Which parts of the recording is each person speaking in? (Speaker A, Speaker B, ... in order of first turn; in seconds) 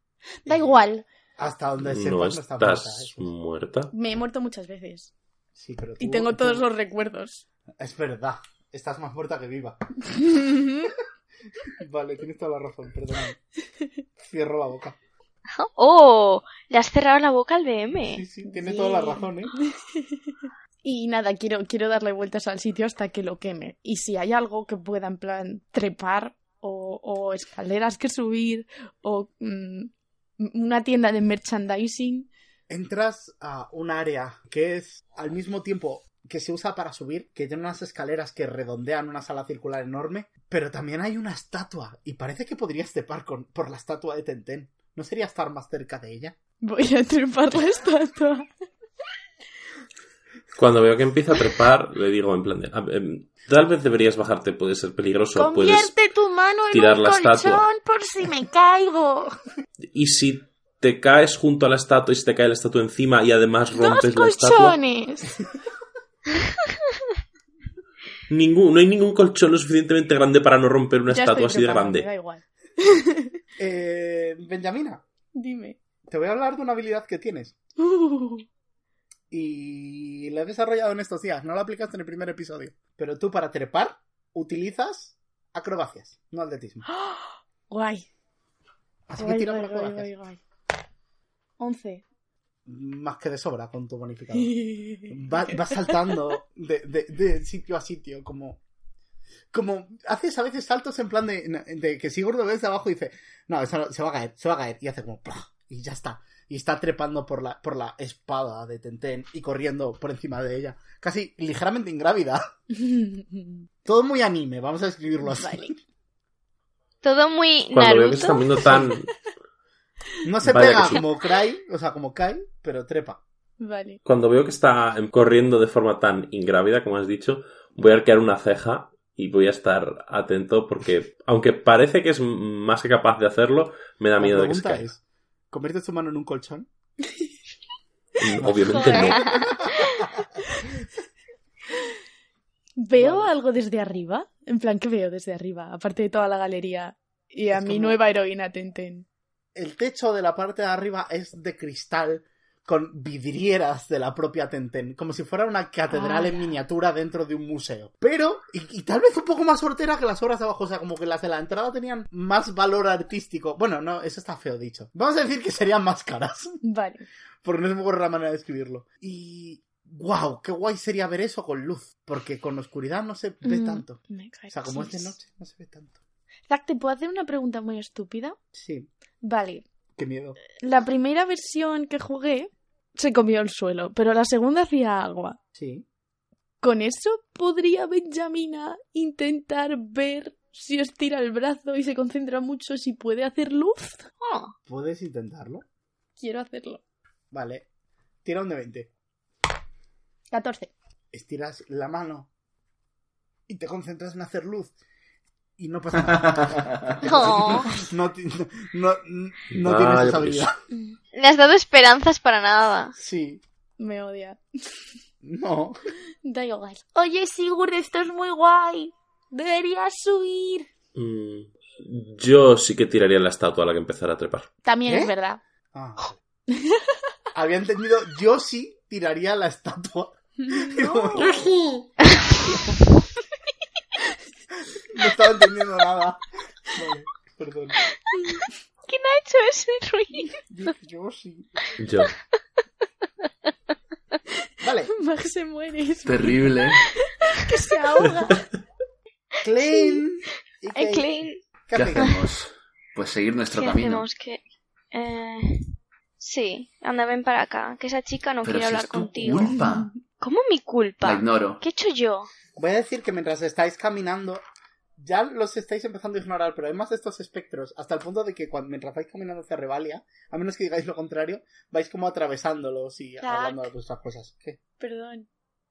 Speaker A: 0.4-1.1, 3.9-5.1, 6.0-7.4, 18.5-19.3, 20.0-20.3, 20.8-32.3, 46.6-48.5, 55.4-59.4, 63.7-65.5, 71.1-73.4, 75.3-75.8, 77.8-78.5, 86.9-88.1, 89.2-90.4, 91.6-92.0, 94.4-95.1, 112.8-113.5, 115.3-115.7, 123.6-124.0, 138.7-139.5, 142.8-149.1, 155.9-156.4, 166.6-167.1, 173.4-175.1, 176.5-178.4, 179.2-179.7, 180.6-185.4, 186.6-194.1, 196.2-196.8, 200.3-200.7, 213.8-214.9, 216.2-220.7, 224.6-225.4, 230.5-231.9, 244.9-248.5, 273.2-273.7, 274.8-275.3
Speaker B: 0.5-0.8, 1.4-3.3, 5.6-6.7, 7.8-10.3, 11.8-13.4, 14.2-15.0, 18.0-19.5, 32.7-46.4, 73.6-75.0, 76.1-77.5, 79.3-86.8, 89.1-90.1, 92.7-94.5, 95.1-98.6, 99.5-112.4, 113.9-115.8, 118.3-118.9, 120.2-123.2, 134.2-136.7, 138.3-140.1, 143.0-143.3, 147.5-148.0, 149.6-166.6, 167.4-176.0, 178.5-178.9, 180.0-180.4, 185.6-185.8, 194.7-195.7, 197.3-197.7, 198.2-198.9, 201.1-202.3, 203.5-204.7, 205.6-210.6, 213.0-213.4, 215.2-215.8, 224.9-225.1, 225.7-226.2, 227.3-231.5, 234.9-237.8, 240.5-241.6, 244.6-244.9, 249.4-251.1, 251.7-252.2, 262.6-264.4, 265.0-274.6
Speaker C: 1.8-3.9, 50.5-56.0, 56.7-57.7, 59.9-64.8, 68.3-72.1, 117.7-119.1, 120.4-121.0, 124.0-134.9, 138.2-139.4, 209.5-210.5, 220.9-224.5, 241.8-242.1
Speaker D: 15.6-18.2, 117.0-118.4, 194.2-194.5, 207.0-207.7, 211.1-212.9, 238.9-240.4, 250.7-251.4, 253.5-259.6, 260.2-262.3
Speaker E: 246.1-246.8, 251.7-254.1, 258.4-259.9, 261.0-261.6